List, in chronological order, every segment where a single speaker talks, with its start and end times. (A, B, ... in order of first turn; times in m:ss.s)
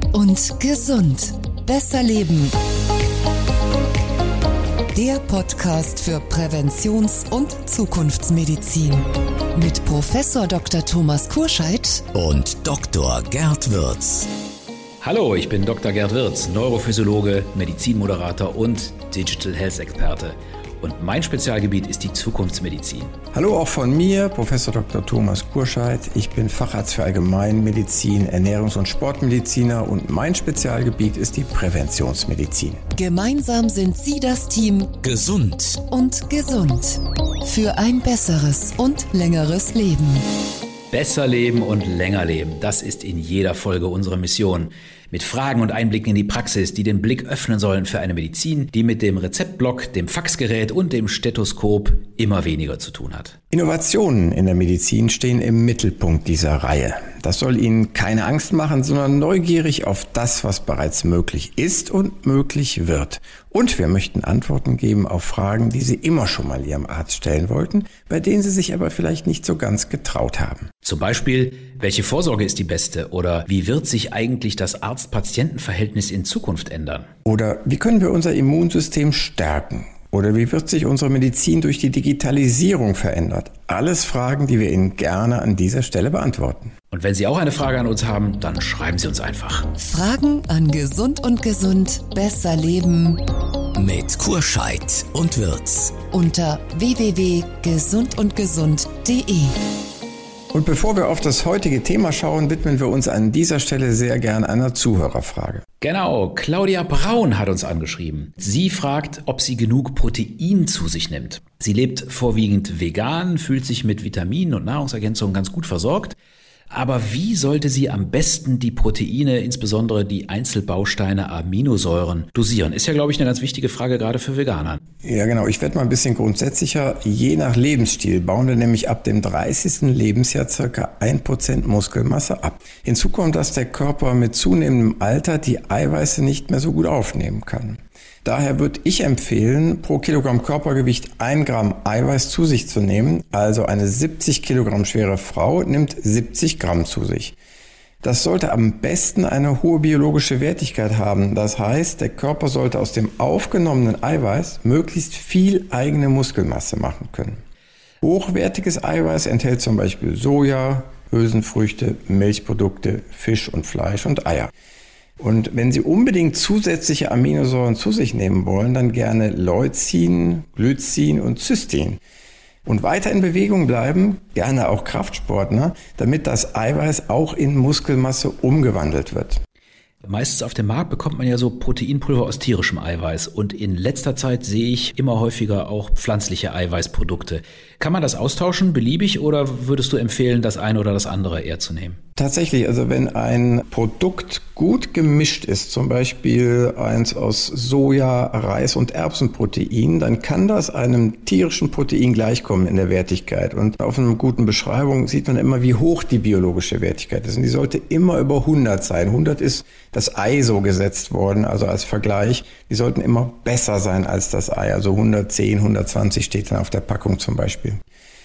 0:00.1-0:02.6 A
0:04.9-0:12.1 A
0:12.1-0:14.3 B
0:15.0-0:23.1 C
0:23.3-0:32.8 D
0:33.0-0:35.0 A
0:35.0-0:35.8 B
0:35.9-0:40.2 A
0:40.9-0:53.4 C
0:53.5-1:10.7 D
1:10.8-1:17.1 C
1:17.2-1:26.7 D
1:26.9-1:29.7 C
1:29.8-1:33.2 A
1:33.8-1:36.0 B
1:36.1-1:39.6 A
1:40.5-1:45.6 D
1:45.8-1:56.2 C
1:56.7-2:04.8 C
2:05.0-2:27.4 D
2:28.0-2:37.4 D
2:38.0-2:44.5 D
2:45.2-2:52.0 D
2:52.6-2:59.4 D
3:00.0-3:12.0 C
3:12.2-3:37.8 D